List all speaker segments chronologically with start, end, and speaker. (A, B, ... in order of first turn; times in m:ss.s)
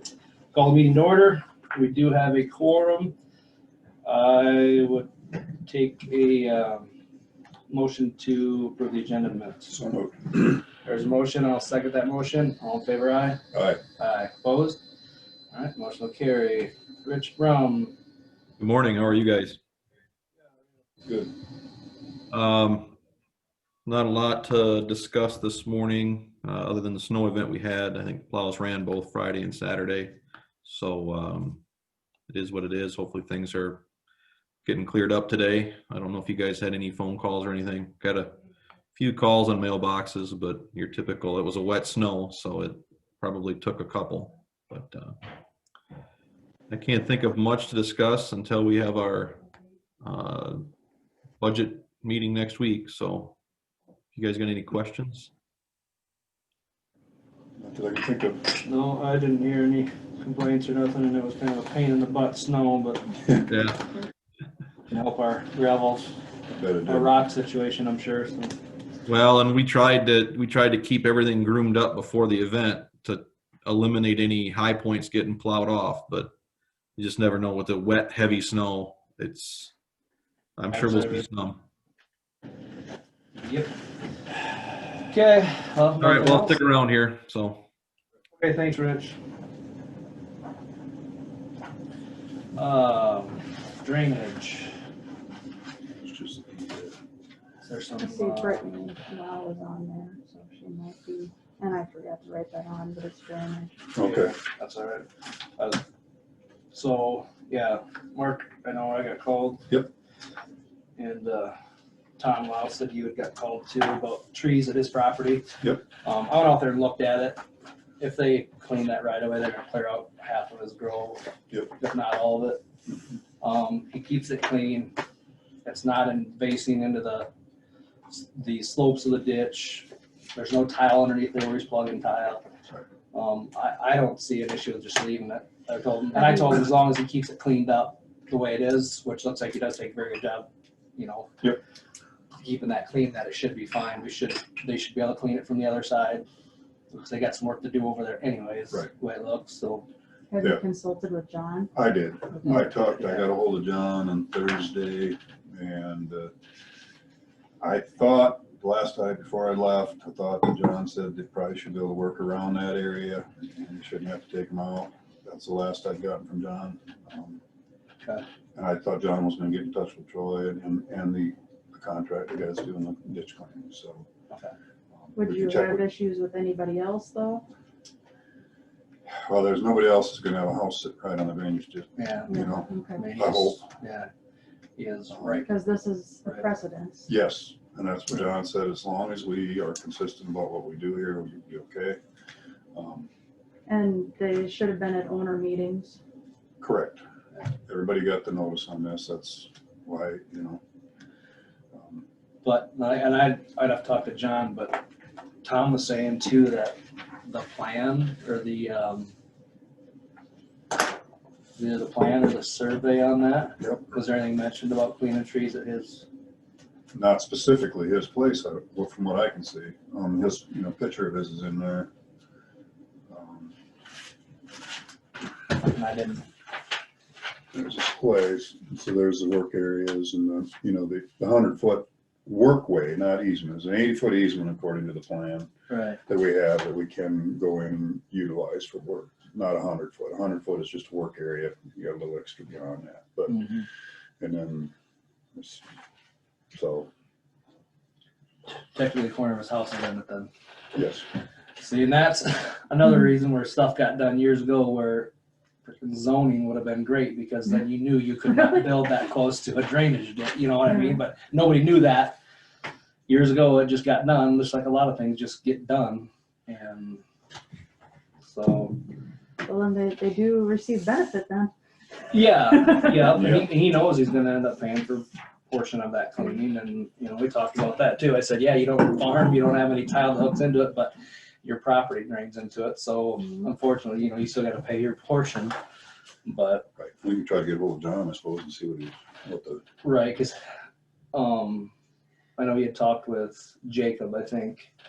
0:00.5-0:03.2 A
0:04.0-0:05.1 A
0:05.7-0:06.9 A
0:07.7-0:09.8 A
0:09.7-0:10.6 B
0:10.8-0:13.4 A
0:13.5-0:13.8 B
0:14.0-0:14.8 A
0:15.5-0:18.0 A
0:18.6-0:19.6 C
0:21.0-0:21.3 B
0:22.3-0:23.0 C
0:23.8-0:31.6 C
0:32.3-0:33.8 C
0:34.6-0:38.4 C
0:38.9-0:45.2 C
0:46.7-0:49.4 C
0:50.0-0:50.7 C
0:51.4-0:53.4 C
0:54.1-0:55.3 C
0:57.6-0:58.6 B
0:58.6-1:03.2 A
1:03.5-1:04.0 C
1:04.9-1:06.2 A
1:06.5-1:07.1 B
1:06.9-1:08.6 A
1:09.1-1:16.3 C
1:17.0-1:19.7 C
1:20.6-1:21.6 C
1:20.7-1:21.2 A
1:23.4-1:23.7 A
1:25.0-1:26.6 A
1:26.0-1:27.6 C
1:28.4-1:29.2 A
1:32.6-1:34.7 A
1:36.0-1:37.0 B
1:37.6-1:38.7 A
1:38.0-1:43.9 D
1:44.0-1:44.4 B
1:44.0-1:45.8 A
1:46.7-1:49.7 A
1:51.0-1:51.6 A
1:52.2-1:57.4 A
1:58.0-2:01.2 A
2:01.8-2:02.6 A
2:03.4-2:05.0 A
2:05.6-2:07.3 A
2:08.1-2:12.4 A
2:13.1-2:21.3 A
2:22.4-2:26.3 A
2:26.9-2:29.9 A
2:30.3-2:31.7 D
2:31.7-2:36.3 B
2:32.5-2:33.3 A
2:37.6-2:47.4 B
2:48.6-2:54.1 B
2:54.3-2:54.6 A
2:55.0-2:55.9 B
2:55.2-2:57.5 D
2:59.1-3:03.6 B
3:02.0-3:04.1 A
3:02.3-3:03.1 D
3:04.8-3:05.5 A
3:05.1-3:05.4 B
3:05.3-3:07.1 D
3:07.1-3:12.0 B
3:12.7-3:13.1 B
3:13.7-3:16.0 D
3:16.6-3:17.0 B
3:17.7-3:20.6 B
3:21.7-3:22.0 B
3:22.4-3:24.8 A
3:25.4-3:29.1 A
3:31.6-3:36.0 A
3:36.9-3:41.9 B
3:43.1-3:43.5 B
3:45.6-3:46.2 A
3:47.5-3:55.5 B
3:55.7-3:56.0 A
3:56.1-4:03.5 B
4:03.3-4:03.7 A
4:04.2-4:04.7 B
4:05.4-4:05.6 B
4:06.5-4:06.9 B
4:08.7-4:10.3 A
4:10.7-4:11.1 B
4:11.6-4:15.1 A
4:15.6-4:22.2 A
4:23.1-4:27.0 A
4:28.2-4:28.8 A
4:29.4-4:31.5 D
4:32.1-4:45.6 A
4:33.1-4:33.5 B
4:46.2-4:46.6 A
4:46.8-4:49.6 B
4:49.8-4:50.4 A
4:51.1-4:51.7 A
4:52.4-4:54.7 A